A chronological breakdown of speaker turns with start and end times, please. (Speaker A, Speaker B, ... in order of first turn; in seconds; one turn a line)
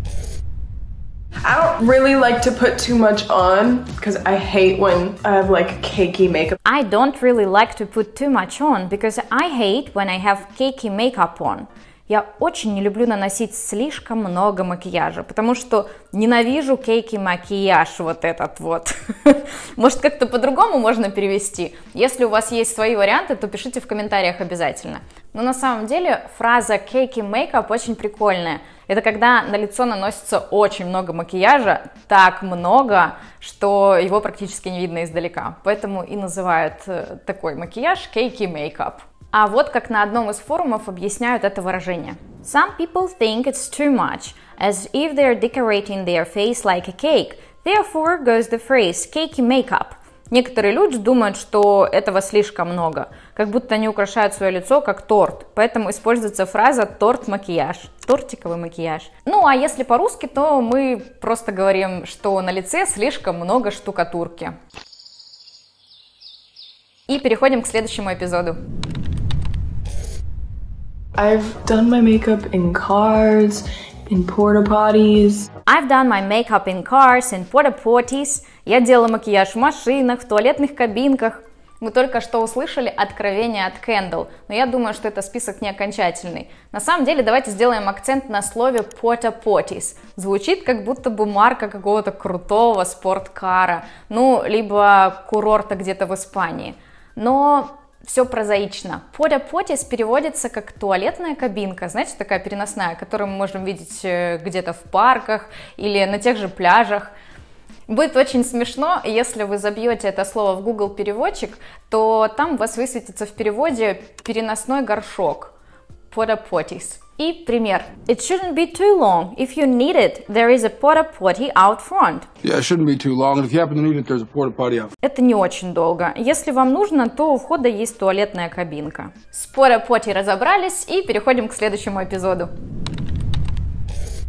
Speaker A: 1.4-6.6
Speaker B: 6.7-64.6
Speaker B: 67.1-68.6
Speaker A: 71.2-75.5
Speaker B: 75.7-107.1
Speaker B: 107.9-115.5
Speaker B: 116.1-122.3
Speaker C: 122.4-124.9
Speaker B: 125.0-132.5